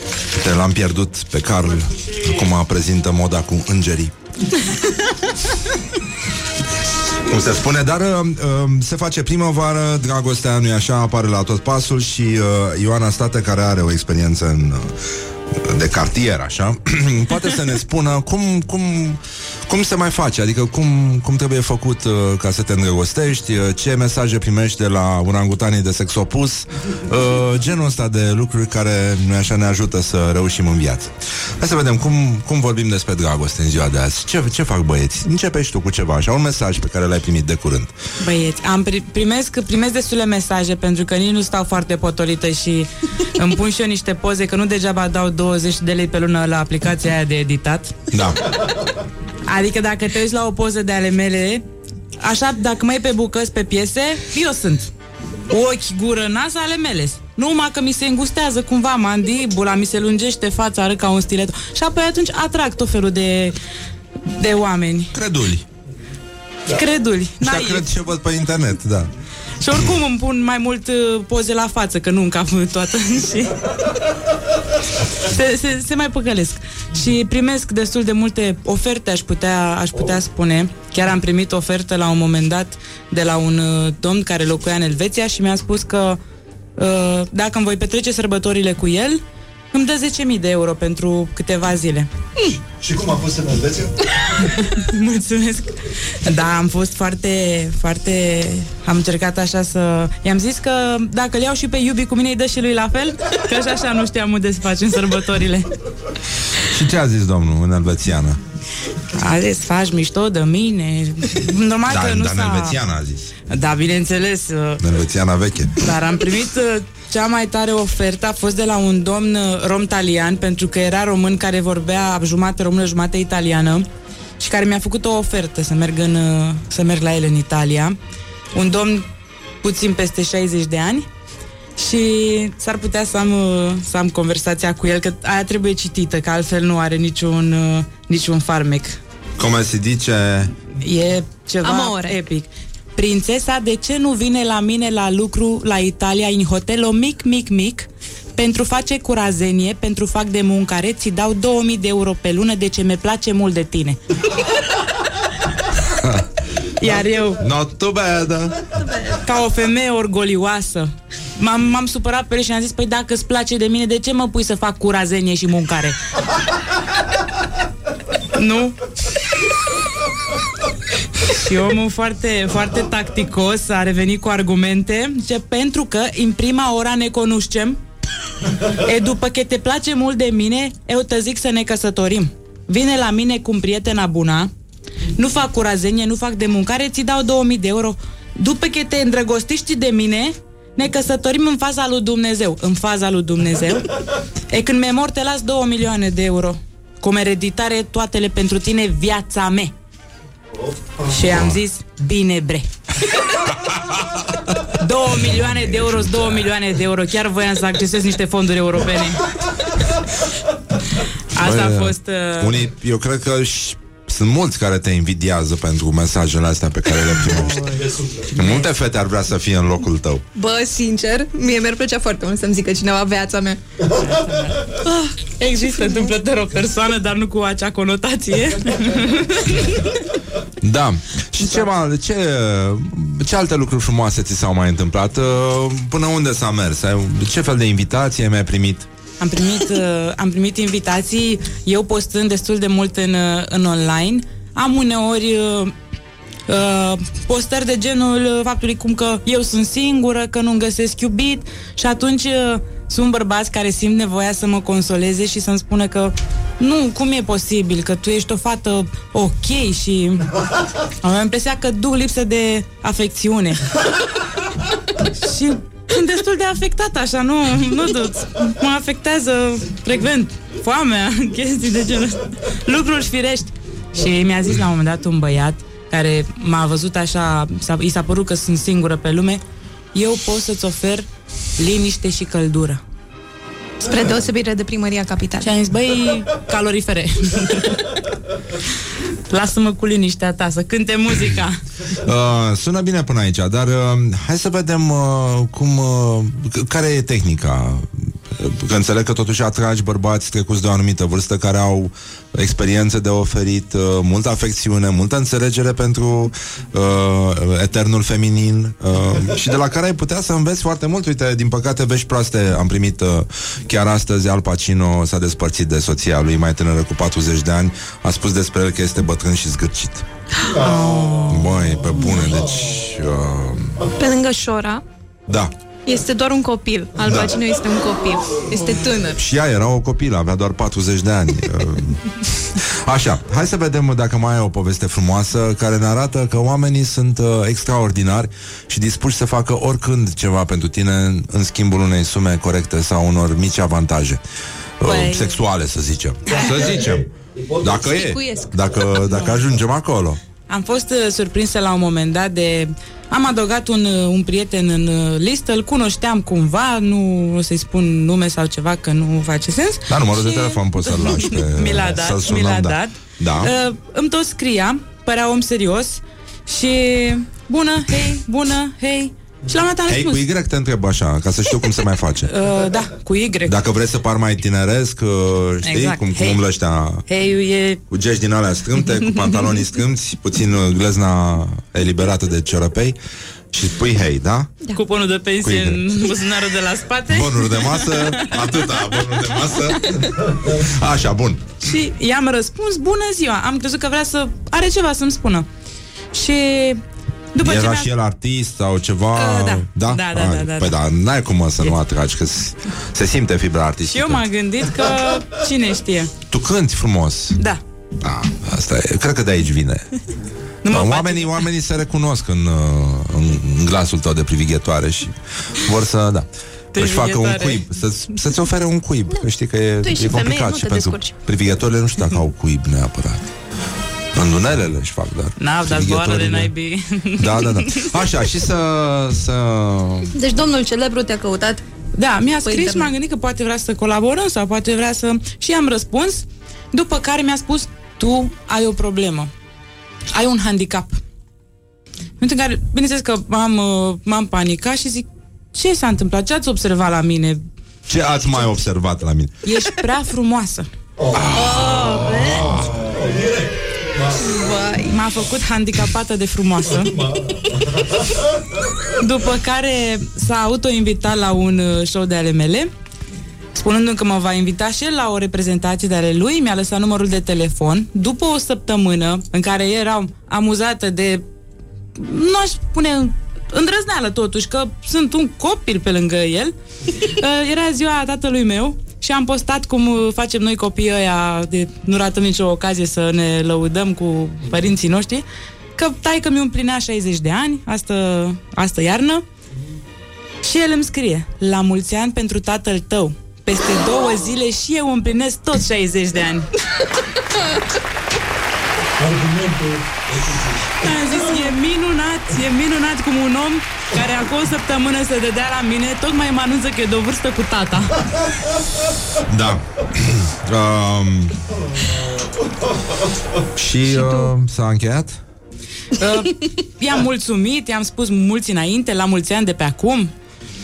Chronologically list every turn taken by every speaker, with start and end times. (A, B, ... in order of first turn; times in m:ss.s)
0:00.3-0:04.1 A
0:07.3-0:14.9 A
0:15.6-0:37.9 A
0:38.2-0:47.9 B
0:48.1-0:48.4 A
0:49.5-0:51.6 B
0:52.2-0:54.9 B
0:55.5-1:03.6 B
1:04.3-1:05.1 B
1:05.1-1:05.6 A
1:06.7-1:07.9 B
1:07.4-1:09.1 A
1:09.6-1:13.7 B
1:15.2-1:26.2 B
1:26.8-1:29.2 B
1:29.7-1:32.1 B
1:32.6-1:33.9 C
1:34.6-1:45.7 B
1:46.7-1:48.4 A
1:49.2-1:52.8 B
1:51.9-1:53.3 A
1:53.5-1:54.8 B
1:54.8-1:55.8 A
1:55.8-2:03.9 B
2:04.4-2:08.0 B
2:08.5-2:09.1 B
2:09.6-2:11.1 B
2:11.8-2:19.0 B
2:19.4-2:20.5 A
2:20.8-2:34.0 B
2:21.6-2:22.2 D
2:35.9-2:36.2 A
2:36.8-2:37.4 B
2:37.4-2:38.6 A
2:38.8-2:39.2 D
2:39.2-2:46.0 B
2:48.3-2:48.8 B
2:51.3-2:57.8 B
2:58.8-3:04.5 B
3:05.2-3:13.9 B
3:14.5-3:19.7 B
3:21.1-3:22.7 B
3:21.3-3:21.6 A
3:24.7-3:29.2 B
3:25.2-3:26.5 A
3:31.3-3:32.7 B
3:31.4-3:37.6 A
3:37.6-3:38.3 C
3:38.4-3:40.2 A
3:40.3-3:43.6 D
3:45.4-3:49.9 B
3:50.6-3:58.9 A
3:51.4-3:51.7 B
3:59.2-4:05.7 B
4:06.5-4:20.3 B
4:21.0-4:23.6 B
4:25.2-4:39.4 B
4:39.9-4:41.1 B
4:41.6-4:42.8 B
4:43.8-4:45.5 D
4:45.4-4:47.8 B
4:49.3-4:51.6 B
4:52.0-5:20.0 A
5:20.5-5:21.1 C
5:20.6-5:21.5 B
5:21.3-5:23.8 A
5:24.0-5:24.8 D
5:25.9-5:29.2 D
5:27.0-5:27.3 A
5:29.2-5:32.0 A
5:32.8-5:44.2 A
5:44.8-5:47.0 A
5:44.8-5:45.2 D
5:46.6-5:47.7 C
5:47.6-5:50.2 A
5:47.7-5:48.6 D
5:50.5-6:10.2 B
5:59.9-6:03.5 A
6:09.9-6:12.3 A
6:12.3-6:13.6 B
6:13.5-6:17.0 A
6:15.6-6:16.4 B
6:17.1-6:17.8 B
6:17.9-6:23.0 A
6:23.5-6:24.6 A
6:24.7-6:30.0 B
6:25.4-6:25.8 A
6:27.1-6:31.5 A
6:31.6-6:35.5 B
6:36.1-6:36.8 B
6:37.3-6:37.9 B
6:37.4-6:44.2 A
6:39.1-6:40.8 B
6:43.8-6:46.1 B
6:46.3-6:47.4 A
6:47.4-6:47.6 B
6:48.0-6:49.9 A
6:50.6-6:51.4 B
6:50.7-7:03.3 A
6:56.7-6:57.7 B
6:59.8-7:01.2 D
7:04.1-7:06.5 A
7:05.4-7:07.9 B
7:07.2-7:10.1 A
7:10.1-7:11.6 D
7:12.0-7:19.3 B
7:12.4-7:12.9 D
7:20.1-7:21.0 B
7:22.2-7:27.4 B
7:27.9-7:29.3 A
7:29.4-7:30.7 B
7:31.0-7:31.3 C
7:31.1-7:32.8 A
7:31.3-7:32.5 D
7:31.8-7:34.4 C
7:34.2-7:34.9 D
7:34.9-7:37.0 B
7:37.0-7:37.2 C
7:39.0-7:42.7 B
7:43.5-7:51.2 B
7:52.0-8:05.2 B
8:05.8-8:09.2 B
8:10.4-8:16.5 B
8:19.0-8:20.7 C
8:20.8-8:28.0 B
8:29.3-8:31.3 A
8:33.6-8:35.2 A
8:34.0-8:34.3 D
8:36.0-8:40.1 B